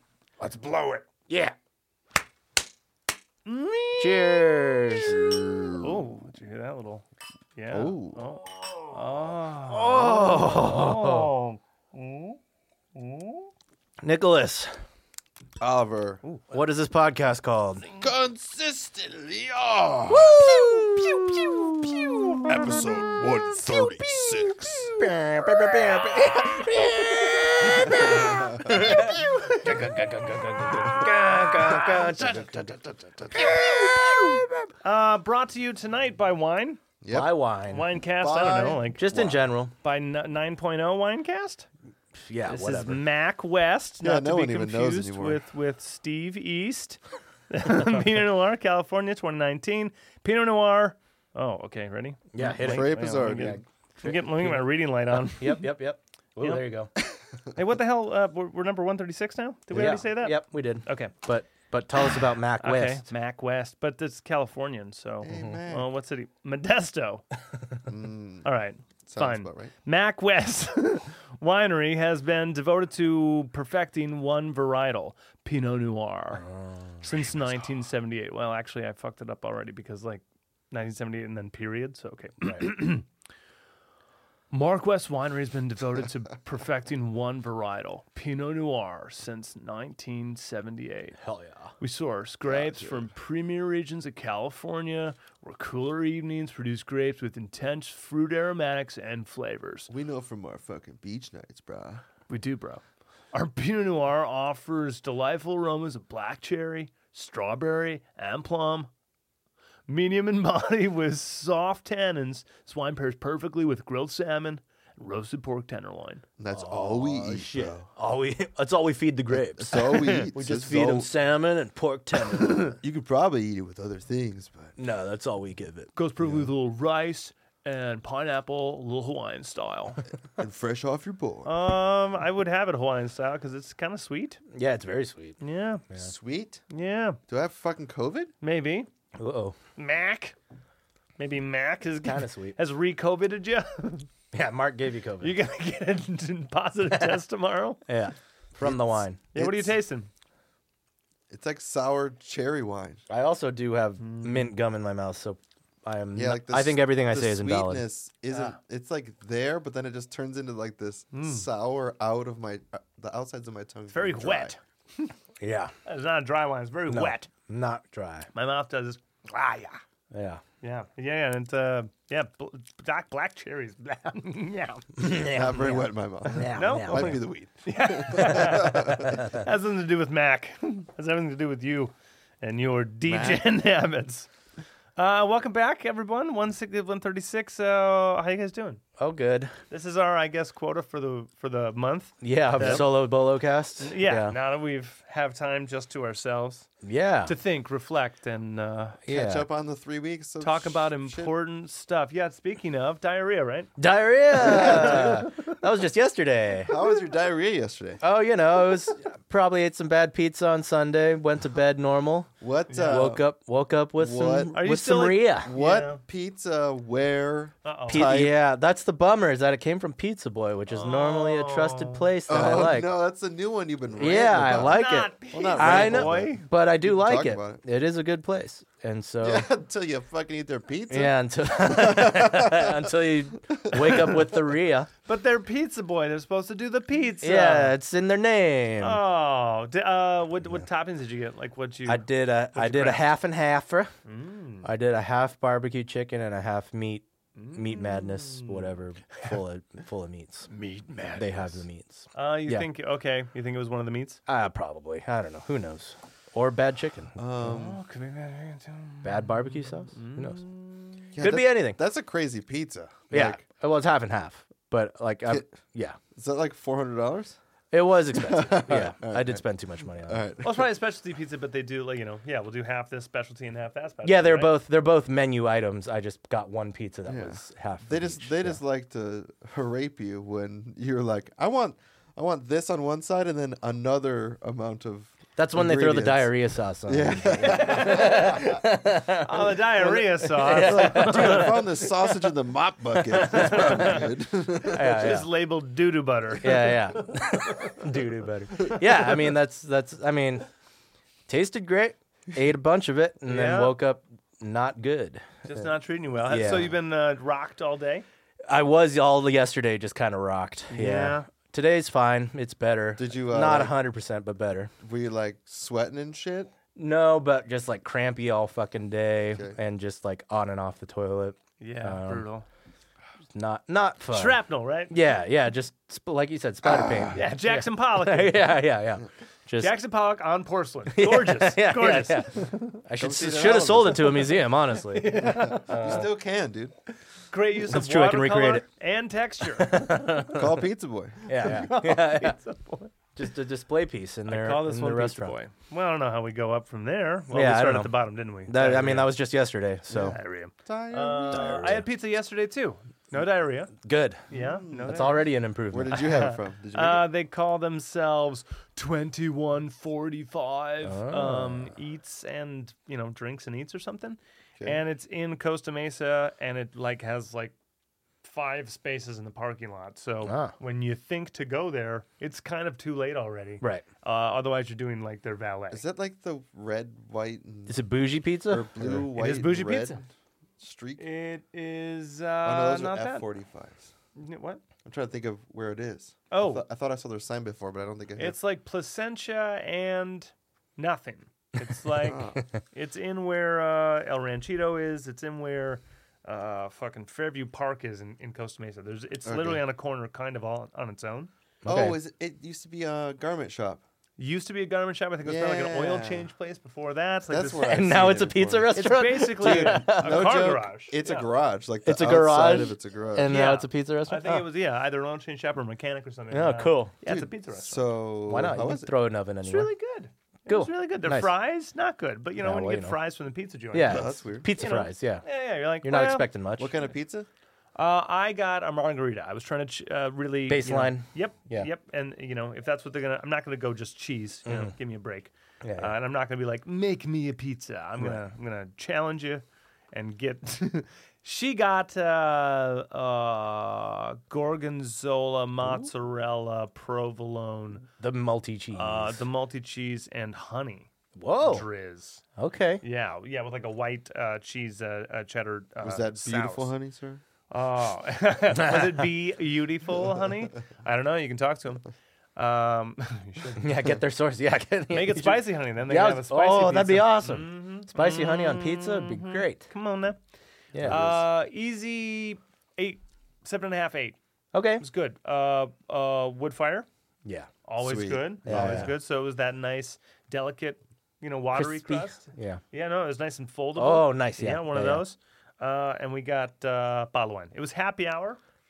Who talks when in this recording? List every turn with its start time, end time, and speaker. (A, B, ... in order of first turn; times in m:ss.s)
0:00.4-0:01.6 A
0:03.4-0:05.1 B
0:04.0-0:05.2 A
0:05.0-0:06.0 C
0:05.8-0:07.0 B
0:07.6-0:12.4 B
0:07.7-0:08.2 C
0:09.6-0:11.3 A
0:12.9-0:13.5 B
0:14.0-0:14.8 A
0:15.6-0:16.2 C
0:16.5-0:17.9 A
0:18.0-0:20.3 C
0:20.1-0:22.9 A
0:20.3-0:21.4 B
0:22.4-0:24.9 C
0:23.2-0:24.8 B
0:24.0-0:34.7 A
0:27.6-0:29.0 C
0:28.7-0:29.8 B
0:31.3-0:32.1 B
0:32.1-0:32.7 C
0:33.4-0:34.0 B
0:34.8-0:36.8 B
0:37.0-0:37.4 C
0:37.1-0:37.9 A
0:37.7-0:41.7 B
0:38.2-0:39.3 C
0:38.9-0:39.7 A
0:42.1-0:43.0 A
0:42.5-0:55.7 B
0:44.0-0:45.4 C
0:52.3-0:56.9 A
0:52.4-0:53.6 C
0:56.4-0:56.7 B
0:57.5-1:01.1 B
0:59.7-1:03.0 A
1:02.1-1:07.2 B
1:05.2-1:05.9 C
1:07.8-1:08.5 C
1:08.4-1:16.5 B
1:09.1-1:09.7 C
1:16.3-1:17.0 A
1:17.0-1:23.0 B
1:22.4-1:22.7 A
1:24.5-1:31.2 B
1:31.2-1:31.7 A
1:31.8-1:39.9 B
1:32.5-1:33.1 C
1:39.9-1:42.0 C
1:42.3-1:48.9 B
1:49.9-1:56.2 B
1:56.4-1:57.9 C
1:56.5-2:02.8 A
1:59.3-2:01.1 C
2:02.7-2:04.8 C
2:04.8-2:05.9 A
2:06.0-2:10.0 B
2:06.2-2:06.5 C
2:10.4-2:11.5 C
2:11.4-2:14.4 B
2:14.5-2:15.4 A
2:15.4-2:15.8 B
2:16.0-2:16.6 C
2:16.7-2:17.2 B
2:17.3-2:18.3 C
2:18.4-2:18.9 B
2:19.2-2:19.6 A
2:19.8-2:20.4 B
2:21.2-2:24.1 B
2:22.0-2:22.5 A
2:24.3-2:25.4 A
2:25.2-2:27.8 B
2:26.9-2:27.2 A
2:27.9-2:29.2 A
2:28.6-2:29.8 C
2:29.3-2:30.1 B
2:31.3-2:33.0 C
2:33.1-2:37.8 A
2:34.0-2:34.5 B
2:36.1-2:44.6 C
2:38.3-2:38.6 B
2:41.1-2:41.4 B
2:43.9-2:45.1 B
2:45.4-2:45.7 A
2:45.8-2:47.3 B
2:46.9-2:48.3 A
2:48.3-2:49.8 B
2:50.1-2:50.4 A
2:50.6-2:54.9 B
2:55.0-2:57.2 A
2:55.0-2:59.3 C
2:56.5-3:04.3 B
2:59.1-2:59.4 A
3:03.1-3:03.4 C
3:05.0-3:08.8 B
3:09.0-3:09.5 A
3:09.7-3:12.9 B
3:12.2-3:14.4 A
3:12.6-3:12.8 C
3:13.8-3:16.7 B
3:16.8-3:17.3 A
3:17.2-3:19.0 B
3:19.0-3:19.4 A
3:19.1-3:21.3 C
3:20.4-3:23.7 B
3:23.8-3:26.8 A
3:24.4-3:25.2 C
3:24.4-3:25.3 B
3:26.7-3:28.0 C
3:28.0-3:32.3 A
3:32.4-3:33.2 C
3:32.7-3:33.1 B
3:32.8-3:35.5 A
3:34.0-3:34.6 C
3:34.5-3:36.0 B
3:35.4-3:38.3 C
3:37.6-3:38.1 B
3:37.9-3:42.9 A
3:40.7-3:42.1 B
3:42.3-3:47.6 C
3:44.0-3:49.5 A
3:44.6-3:46.5 B
3:49.2-3:52.9 C
3:50.9-3:54.9 A
3:53.5-3:54.3 C
3:55.0-3:57.8 B
3:57.2-3:59.0 A
3:58.8-4:03.0 B
4:01.8-4:03.9 A
4:04.0-4:04.7 B
4:04.6-4:10.5 A
4:07.4-4:09.3 B
4:10.5-4:11.6 B
4:11.1-4:12.7 A
4:12.1-4:14.2 B
4:14.3-4:17.1 A
4:17.2-4:17.8 C
4:17.4-4:21.1 B
4:19.0-4:20.4 A
4:21.1-4:23.4 C
4:21.2-4:21.8 A
4:23.1-4:26.0 A
4:26.1-4:27.4 C
4:27.7-4:30.2 A
4:28.1-4:29.4 C
4:30.0-4:30.7 C
4:30.4-4:34.5 B
4:34.0-4:38.6 A
4:37.1-4:46.3 C
4:45.4-4:51.6 A
4:46.8-4:48.6 C
4:47.4-4:51.7 B
4:50.5-4:55.0 C
4:53.1-4:54.1 B
4:53.2-4:54.0 A
4:54.7-4:57.8 B
4:54.7-4:55.3 A
4:56.4-5:00.5 A
5:01.3-5:05.6 A
5:03.2-5:03.8 B
5:05.4-5:08.0 B
5:06.2-5:06.7 A
5:08.5-5:14.7 A
5:10.7-5:11.3 B
5:13.0-5:13.8 C
5:14.8-5:16.5 C
5:16.8-5:22.3 A
5:21.6-5:22.4 B
5:23.3-5:29.7 A
5:24.1-5:24.9 B
5:26.6-5:27.2 C
5:27.1-5:28.6 B
5:29.6-5:32.8 B
5:30.9-5:36.1 A
5:33.0-5:34.4 C
5:34.8-5:36.1 B
5:35.1-5:36.7 C
5:37.3-5:40.2 B
5:37.7-5:38.6 A
5:39.5-5:40.6 A
5:40.3-5:41.6 C
5:41.3-5:42.4 A
5:41.4-5:42.9 B
5:43.2-5:45.4 A
5:44.3-5:49.1 B
5:47.3-5:50.2 A
5:49.9-5:53.7 B
5:50.6-5:51.8 C
5:51.3-5:51.8 A
5:53.8-5:54.3 A
5:54.3-5:55.2 B
5:54.3-5:57.1 C
5:54.8-5:56.0 A
5:55.9-6:07.5 B
6:00.8-6:01.7 A
6:08.2-6:15.8 B
6:10.2-6:10.5 A
6:15.7-6:17.8 C
6:17.7-6:19.0 A
6:18.5-6:20.0 C
6:19.1-6:20.0 B
6:20.6-6:21.0 C
6:21.0-6:23.2 B
6:22.4-6:23.9 C
6:24.2-6:24.6 B
6:24.8-6:28.4 C
6:26.3-6:26.6 B
6:28.2-6:41.3 B
6:32.0-6:32.5 C
6:39.2-6:39.6 C
6:41.6-6:42.0 A
6:41.6-6:43.8 C
6:44.2-6:47.7 B
6:45.2-6:46.3 C
6:47.3-6:53.3 C
6:47.6-6:50.3 A
6:48.7-6:51.3 B
6:51.8-6:54.4 A
6:53.3-6:57.9 B
6:56.3-6:56.9 A
6:57.0-6:58.9 C
6:58.3-6:59.7 A
6:59.4-7:06.3 B
7:00.5-7:01.3 A
7:02.4-7:03.0 A
7:03.7-7:05.2 A
7:03.8-7:04.5 C
7:05.8-7:06.7 A
7:06.6-7:07.3 C
7:07.7-7:27.8 B
7:10.5-7:11.7 A
7:14.4-7:14.7 A
7:15.6-7:16.0 A
7:28.0-7:29.2 A
7:28.7-7:32.2 B
7:31.2-7:31.6 A
7:32.4-7:32.8 A
7:32.8-7:36.7 B
7:35.8-7:37.2 C
7:37.5-7:41.8 B
7:38.5-7:39.1 A
7:42.4-7:43.6 B
7:43.5-7:49.7 A
7:44.9-7:50.2 B
7:50.7-7:51.0 A
7:50.8-7:51.2 C
7:50.8-7:54.2 B
7:54.5-7:54.8 A
7:54.8-7:56.9 B
7:57.2-7:57.5 A
7:57.6-8:08.4 B
7:57.8-7:58.9 C
7:58.5-7:58.9 A
8:01.5-8:02.6 A
8:03.8-8:05.0 A